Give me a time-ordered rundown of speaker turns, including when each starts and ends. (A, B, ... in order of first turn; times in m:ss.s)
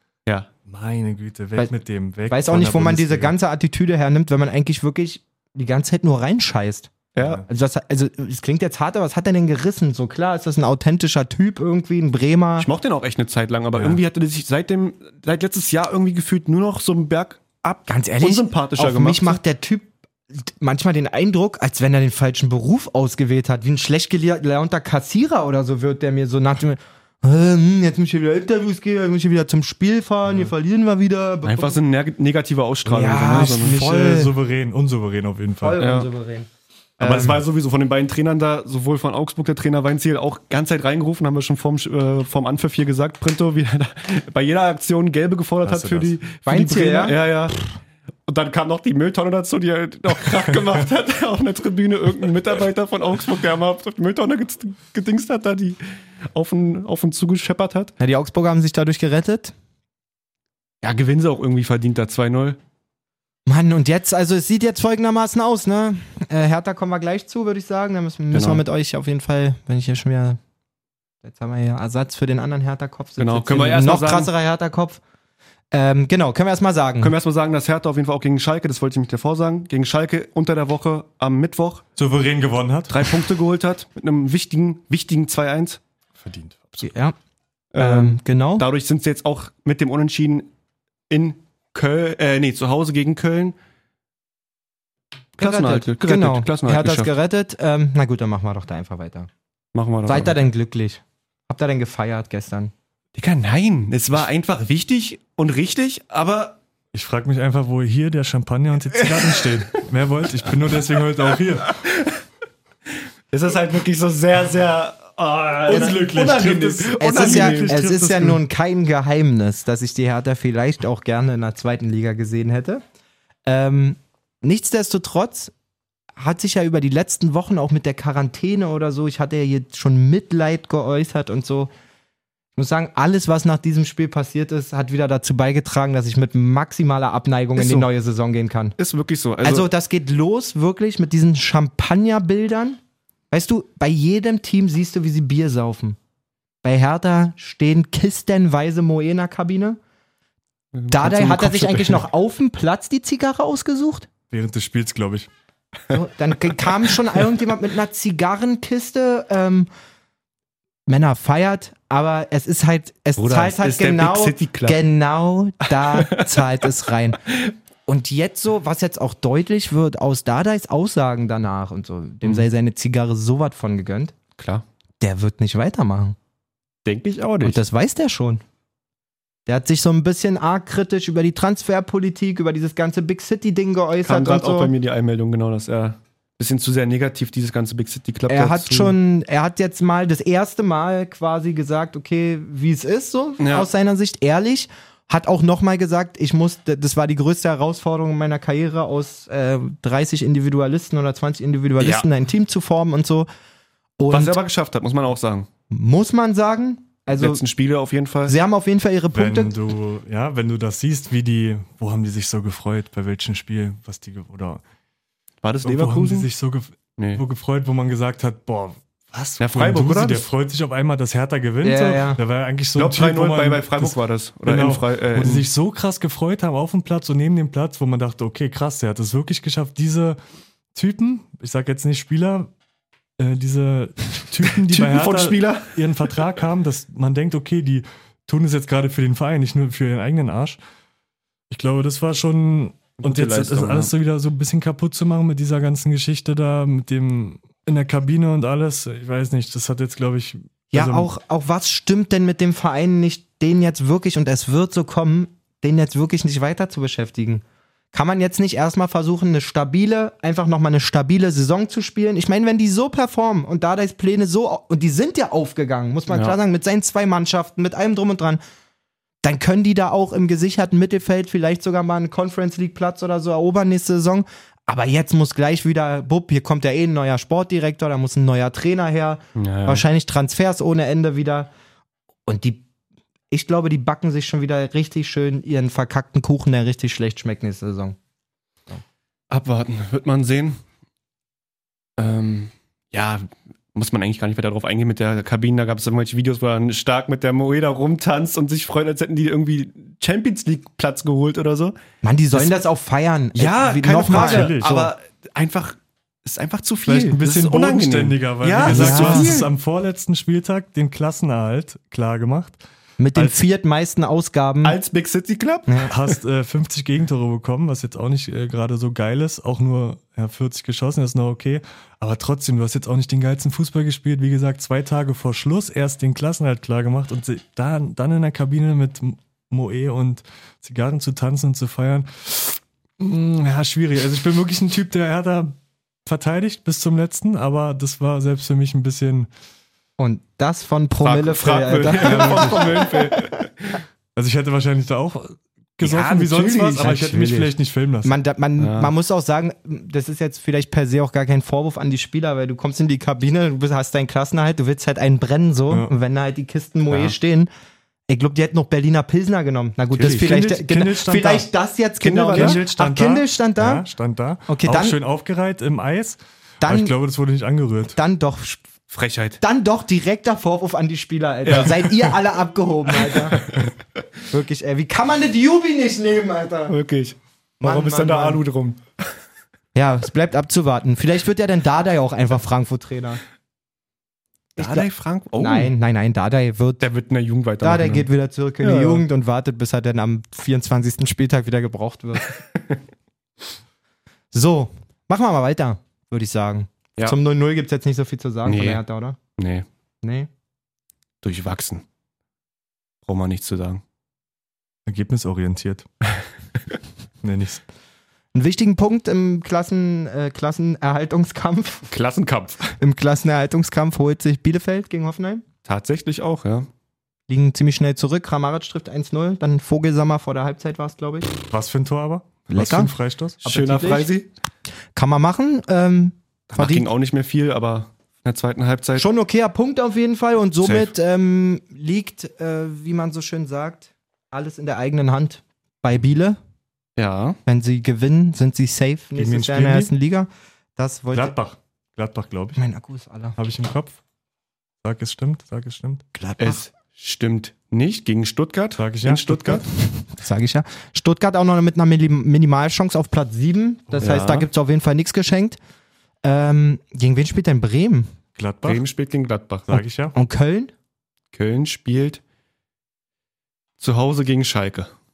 0:00.6-0:03.3 A
0:02.3-0:06.9 B
0:07.1-0:07.4 C
0:07.2-0:07.4 A
0:07.5-0:12.7 B
0:12.6-0:19.4 C
0:17.9-0:31.8 B
0:31.4-0:33.8 C
0:32.8-0:34.3 B
0:33.4-0:35.8 A
0:35.6-0:36.5 B
0:35.8-0:36.1 C
0:37.0-0:47.6 C
0:37.0-0:37.4 A
0:45.6-0:46.2 A
0:46.4-0:47.2 B
0:48.3-0:55.8 C
0:56.3-0:57.9 C
0:58.0-0:59.5 B
1:00.8-1:02.6 C
1:03.4-1:10.4 B
1:08.3-1:08.6 C
1:11.2-1:15.0 B
1:13.2-1:14.3 C
1:15.7-1:17.1 B
1:17.0-1:21.8 C
1:22.0-1:23.2 A
1:22.9-1:25.8 C
1:26.2-1:26.9 A
1:26.8-1:27.1 B
1:27.7-1:30.5 C
1:27.8-1:28.6 B
1:31.1-1:33.6 C
1:35.4-1:37.1 C
1:35.4-1:39.3 B
1:39.7-1:40.4 C
1:40.0-1:42.7 B
1:43.1-1:46.6 C
1:46.9-1:51.8 A
1:49.0-1:49.6 C
1:53.3-1:57.8 C
1:55.4-1:58.4 A
1:57.0-2:02.8 B
2:03.4-2:05.5 B
2:06.2-2:11.7 B
2:12.6-2:18.7 B
2:17.6-2:17.9 C
2:18.8-2:19.7 C
2:19.4-2:22.8 B
2:23.3-2:26.0 B
2:26.6-2:29.8 B
2:30.7-2:32.0 C
2:30.9-2:34.1 B
2:34.3-2:35.3 A
2:35.9-2:39.7 B
2:40.9-2:47.2 B
2:43.2-2:44.8 C
2:45.7-2:46.4 C
2:47.9-2:54.1 B
2:54.4-2:54.6 C
2:55.0-2:56.2 B
2:56.8-2:57.6 C
2:57.4-2:58.4 B
2:59.4-3:04.7 B
3:04.0-3:09.0 C
3:08.3-3:23.3 B
3:13.4-3:13.7 C
3:21.8-3:22.1 C
3:24.0-3:24.4 B
3:24.1-3:25.5 C
3:25.7-3:27.4 B
3:27.1-3:28.4 C
3:28.2-3:29.5 B
3:29.1-3:34.6 A
3:35.4-3:36.3 C
3:35.6-3:50.2 A
3:37.0-3:37.2 C
3:39.4-3:40.3 C
3:41.6-3:42.2 B
3:42.8-3:45.5 C
3:50.7-3:52.5 A
3:53.2-4:00.6 A
3:54.6-3:56.0 C
4:01.5-4:11.1 A
4:03.0-4:03.9 C
4:10.7-4:28.4 B
4:26.1-4:26.4 C
4:29.2-4:41.5 B
4:39.4-4:39.8 C
4:42.3-4:42.6 B
4:43.3-4:48.0 B
4:49.3-4:50.6 C
4:52.0-5:01.8 C
5:02.0-5:04.6 B
5:03.3-5:09.5 C
5:04.1-5:04.9 A
5:06.9-5:12.6 A
5:08.6-5:09.5 B
5:13.0-5:14.8 B
5:14.6-5:16.2 C
5:15.9-5:39.3 A
5:40.0-5:42.9 B
5:41.0-5:43.8 C
5:41.9-5:42.8 A
5:44.1-5:48.2 A
5:45.8-5:47.5 C
5:46.3-5:47.0 B
5:48.0-5:57.5 B
5:48.6-5:48.9 C
5:56.9-5:57.2 C
5:58.1-6:03.8 B
5:59.9-6:01.5 A
6:02.0-6:02.6 C
6:02.3-6:08.0 A
6:04.5-6:05.0 B
6:06.6-6:06.9 B
6:07.9-6:08.6 B
6:08.9-6:09.4 C
6:09.4-6:13.4 B
6:11.4-6:12.2 C
6:12.9-6:13.7 C
6:14.3-6:16.8 B
6:16.7-6:18.8 C
6:17.6-6:18.4 B
6:19.7-6:23.2 B
6:24.6-6:26.8 B
6:24.6-6:25.7 C
6:26.8-6:28.1 C
6:27.6-6:32.3 B
6:28.6-6:29.0 C
6:34.3-6:39.2 B
6:38.4-6:38.8 C
6:39.4-6:39.6 C
6:40.0-6:40.3 B
6:41.2-6:41.8 C
6:43.0-6:43.8 C
6:44.8-6:45.8 A
6:47.2-6:47.6 A
6:48.3-6:51.9 B
6:51.9-6:52.7 C
6:52.8-6:55.4 B
6:55.6-6:56.7 C
6:57.3-7:01.3 B
7:01.5-7:03.4 A
7:02.5-7:04.1 B
7:03.4-7:04.3 C
7:04.9-7:06.9 B
7:06.5-7:09.0 C
7:09.0-7:16.4 B
7:10.6-7:10.9 C
7:17.0-7:17.4 C
7:17.4-7:21.3 B
7:19.2-7:19.9 A
7:21.1-7:22.6 A
7:22.6-7:23.4 B
7:23.4-7:24.0 A
7:24.8-7:26.1 A
7:26.1-7:26.6 B
7:26.4-7:29.6 C
7:28.8-7:29.6 A
7:30.0-7:35.6 B
7:34.0-7:34.5 C
7:36.2-7:38.1 B
7:38.4-7:38.8 A
7:38.6-7:39.8 C
7:39.7-7:40.1 A
7:40.1-7:40.7 B
7:41.3-7:42.2 C
7:43.8-7:44.9 C